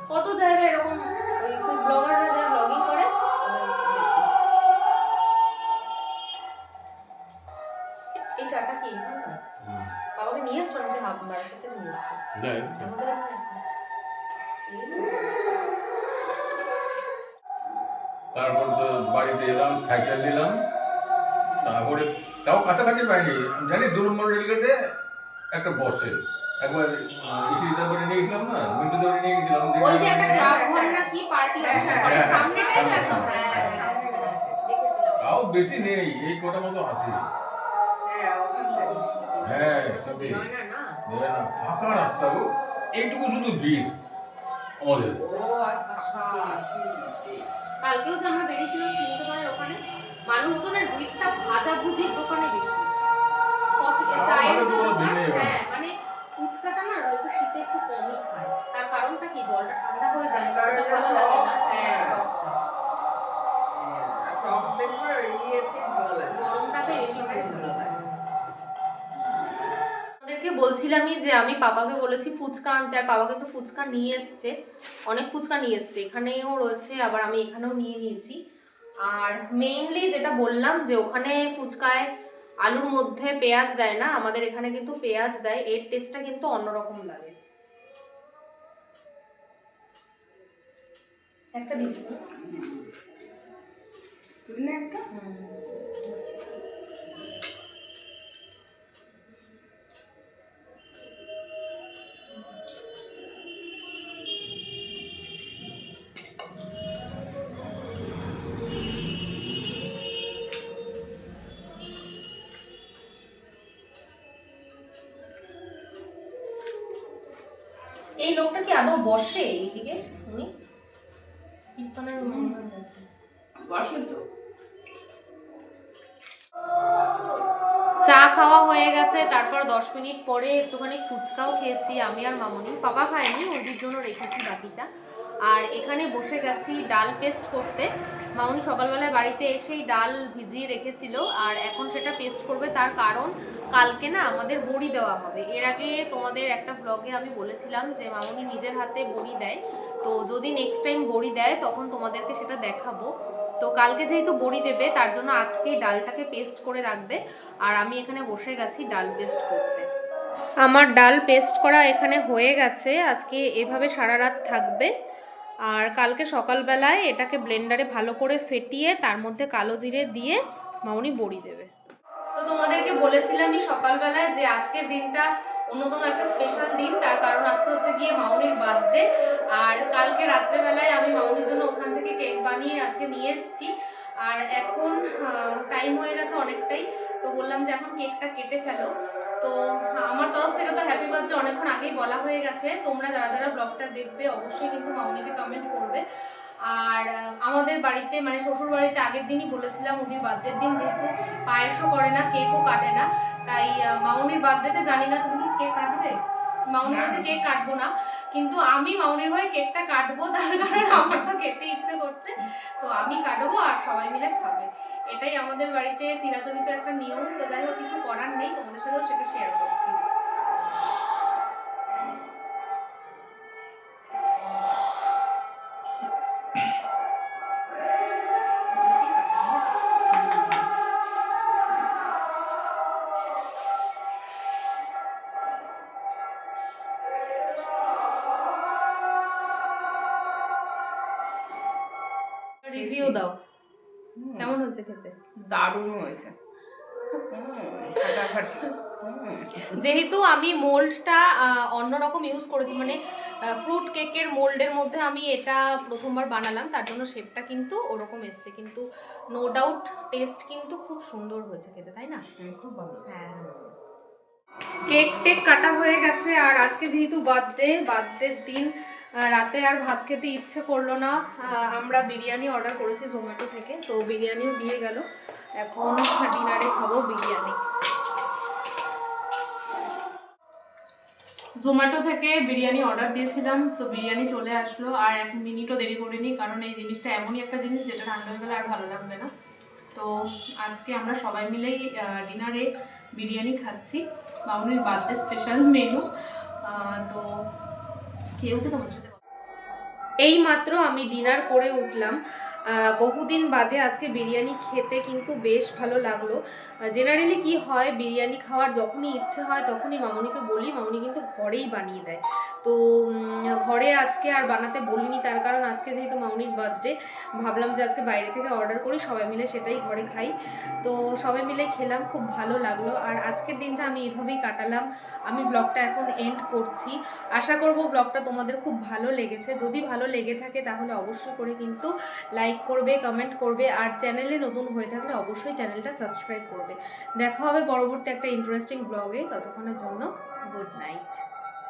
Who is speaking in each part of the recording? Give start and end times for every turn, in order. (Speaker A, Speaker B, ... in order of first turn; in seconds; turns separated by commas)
Speaker A: 0.1-4.3, Speaker A: 8.4-9.4, Speaker B: 9.6-9.9, Speaker A: 10.2-12.2, Speaker B: 12.4-12.9, Speaker A: 12.7-13.6, Speaker A: 14.7-15.7, Speaker B: 18.3-20.6, Speaker C: 21.5-21.8, Speaker B: 21.6-24.7, Speaker B: 25.5-30.5, Speaker A: 29.8-35.3, Speaker C: 30.2-34.6, Speaker B: 31.7-33.8, Speaker B: 35.2-37.2, Speaker C: 38.1-39.0, Speaker A: 38.6-40.9, Speaker B: 39.4-40.4, Speaker B: 41.1-43.9, Speaker B: 44.8-45.2, Speaker C: 45.2-47.5, Speaker A: 46.0-46.6, Speaker A: 47.8-52.9, Speaker A: 53.8-62.6, Speaker B: 54.1-55.6, Speaker C: 60.3-62.2, Speaker C: 63.7-68.2, Speaker A: 66.3-67.9, Speaker C: 69.1-69.7, Speaker A: 70.2-74.5, Speaker A: 75.1-78.4, Speaker A: 79.0-82.1, Speaker A: 82.6-87.3, Speaker A: 91.5-92.2, Speaker C: 92.3-92.9, Speaker C: 94.5-95.1, Speaker A: 95.1-96.4, Speaker A: 118.2-120.5, Speaker A: 121.8-123.0, Speaker C: 122.2-122.6, Speaker C: 123.6-124.2, Speaker A: 128.1-134.9, Speaker A: 135.5-153.1, Speaker A: 153.6-159.9, Speaker A: 160.6-164.9, Speaker A: 165.7-171.7, Speaker A: 172.3-179.1, Speaker A: 179.6-183.7, Speaker A: 184.2-188.9, Speaker A: 189.4-196.0, Speaker A: 196.7-206.1, Speaker A: 206.7-220.0, Speaker C: 206.8-207.4, Speaker A: 228.7-229.7, Speaker C: 230.1-230.6, Speaker A: 242.6-243.4, Speaker C: 242.7-243.2, Speaker C: 244.2-244.5, Speaker A: 244.4-245.1, Speaker C: 245.4-246.3, Speaker C: 247.1-249.8, Speaker A: 249.7-262.2, Speaker C: 262.4-263.7, Speaker A: 263.1-263.4, Speaker A: 264.9-268.7, Speaker A: 269.3-275.1, Speaker C: 271.4-272.2, Speaker A: 275.6-277.6, Speaker A: 281.6-289.3, Speaker A: 289.9-296.0, Speaker A: 296.6-297.3, Speaker A: 298.4-299.1, Speaker A: 300.2-302.2, Speaker A: 302.7-306.4, Speaker A: 306.9-320.3, Speaker A: 320.8-341.2